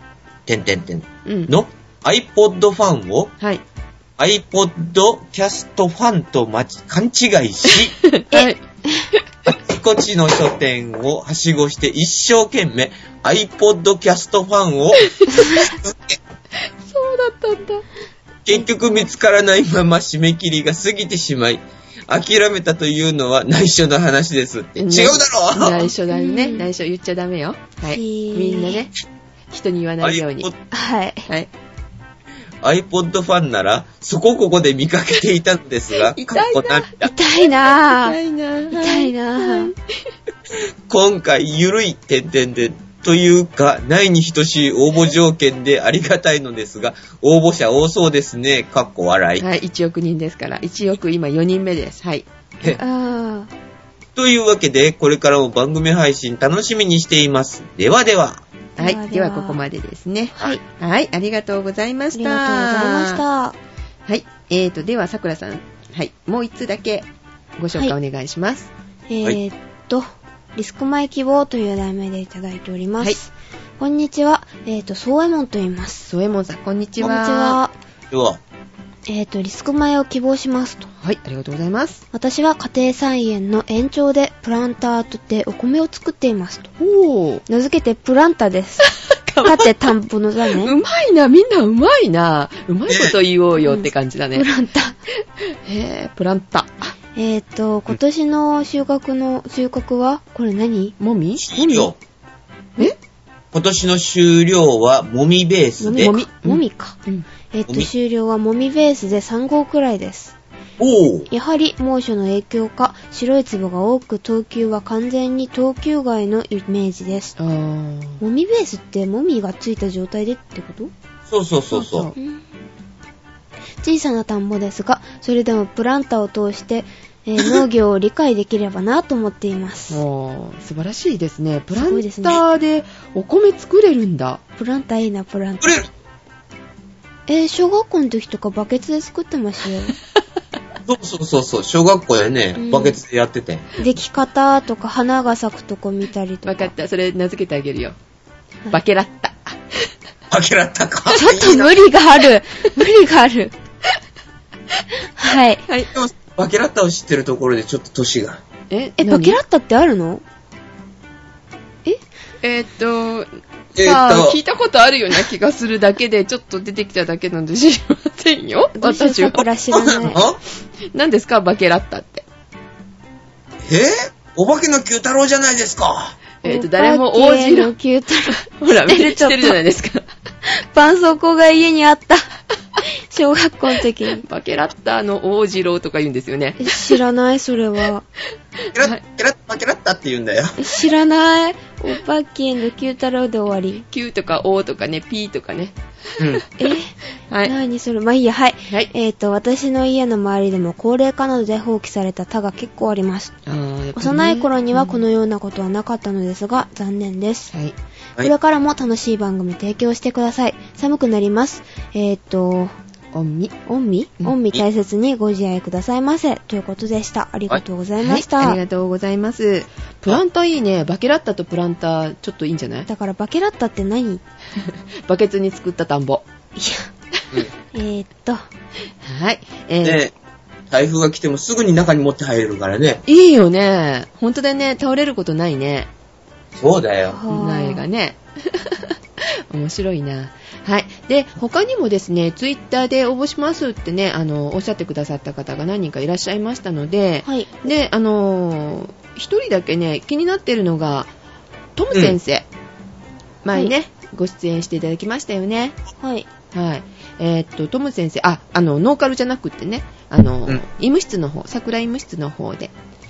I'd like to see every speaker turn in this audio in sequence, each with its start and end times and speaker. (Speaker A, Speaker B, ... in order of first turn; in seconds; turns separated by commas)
Speaker A: 0.5-3.3, Speaker B: 1.2-1.5, Speaker A: 4.2-8.0, Speaker B: 8.0-8.6, Speaker C: 8.3-9.1, Speaker A: 9.4-16.2, Speaker B: 15.1-15.4, Speaker C: 15.3-15.8, Speaker B: 16.8-17.9, Speaker A: 18.4-25.9, Speaker B: 24.8-28.9, Speaker C: 26.1-26.7, Speaker C: 27.9-28.8, Speaker B: 29.5-30.5, Speaker A: 30.0-30.5, Speaker C: 30.7-31.3, Speaker A: 32.6-37.1, Speaker B: 36.1-39.8, Speaker C: 37.0-38.2, Speaker C: 38.7-39.7, Speaker A: 40.5-49.4, Speaker B: 49.4-52.2, Speaker C: 52.6-53.5, Speaker A: 54.1-58.4, Speaker C: 58.8-59.6, Speaker B: 58.8-63.2, Speaker C: 62.1-63.5, Speaker B: 64.0-67.1, Speaker B: 67.6-68.7, Speaker C: 69.1-76.1, Speaker B: 76.1-77.6, Speaker C: 77.0-77.7, Speaker A: 78.1-78.4, Speaker C: 79.1-80.9, Speaker B: 81.0-82.0, Speaker C: 82.1-86.7, Speaker B: 86.8-87.4, Speaker C: 87.5-90.7, Speaker B: 89.1-89.6, Speaker B: 90.6-94.5, Speaker A: 92.9-93.2, Speaker C: 93.6-95.0, Speaker B: 95.6-96.9, Speaker C: 97.1-101.0, Speaker B: 101.0-101.6, Speaker A: 101.4-102.0, Speaker C: 101.5-101.9, Speaker A: 103.5-106.1, Speaker C: 105.8-107.0, Speaker B: 106.0-107.3, Speaker C: 107.5-110.3, Speaker A: 110.8-111.3, Speaker C: 111.3-117.3, Speaker B: 117.4-118.2, Speaker C: 118.2-120.9, Speaker A: 121.3-122.1, Speaker B: 121.7-122.2, Speaker C: 122.2-122.4, Speaker C: 123.8-130.0, Speaker B: 129.9-134.4, Speaker C: 131.7-132.4, Speaker C: 134.6-135.8, Speaker A: 135.6-135.9, Speaker C: 137.3-139.9, Speaker A: 140.8-143.7, Speaker C: 142.6-143.0, Speaker C: 143.8-146.7, Speaker B: 146.4-147.9, Speaker B: 148.7-149.9, Speaker A: 150.3-151.8, Speaker C: 151.1-153.5, Speaker C: 155.2-155.6, Speaker B: 155.7-155.9, Speaker A: 155.9-158.4, Speaker B: 158.7-159.4, Speaker C: 159.0-160.2, Speaker B: 162.4-169.4, Speaker A: 163.7-164.4, Speaker C: 168.8-170.2, Speaker A: 169.7-170.4, Speaker B: 170.9-172.2, Speaker A: 173.6-176.2, Speaker B: 176.4-177.7, Speaker C: 176.4-179.6, Speaker B: 178.3-180.1, Speaker C: 180.4-182.3, Speaker C: 182.9-184.2, Speaker B: 184.2-187.0, Speaker C: 186.6-188.0, Speaker A: 188.7-190.6, Speaker C: 190.6-193.8, Speaker B: 193.8-196.4, Speaker C: 196.6-203.3, Speaker B: 203.4-205.0, Speaker C: 203.9-207.5, Speaker C: 208.2-212.7, Speaker B: 213.1-213.6, Speaker C: 213.7-218.6, Speaker B: 218.0-222.9, Speaker C: 222.9-224.2, Speaker B: 225.1-226.2, Speaker C: 226.6-226.9, Speaker C: 227.7-228.4, Speaker B: 229.0-230.0, Speaker A: 229.8-230.1, Speaker A: 230.7-233.0, Speaker B: 233.1-235.9, Speaker A: 236.5-237.2, Speaker C: 237.1-237.8, Speaker B: 237.3-251.1, Speaker C: 247.2-247.5, Speaker B: 251.8-252.4, Speaker A: 251.9-252.2, Speaker B: 253.4-255.8, Speaker C: 256.0-256.2, Speaker B: 256.5-262.7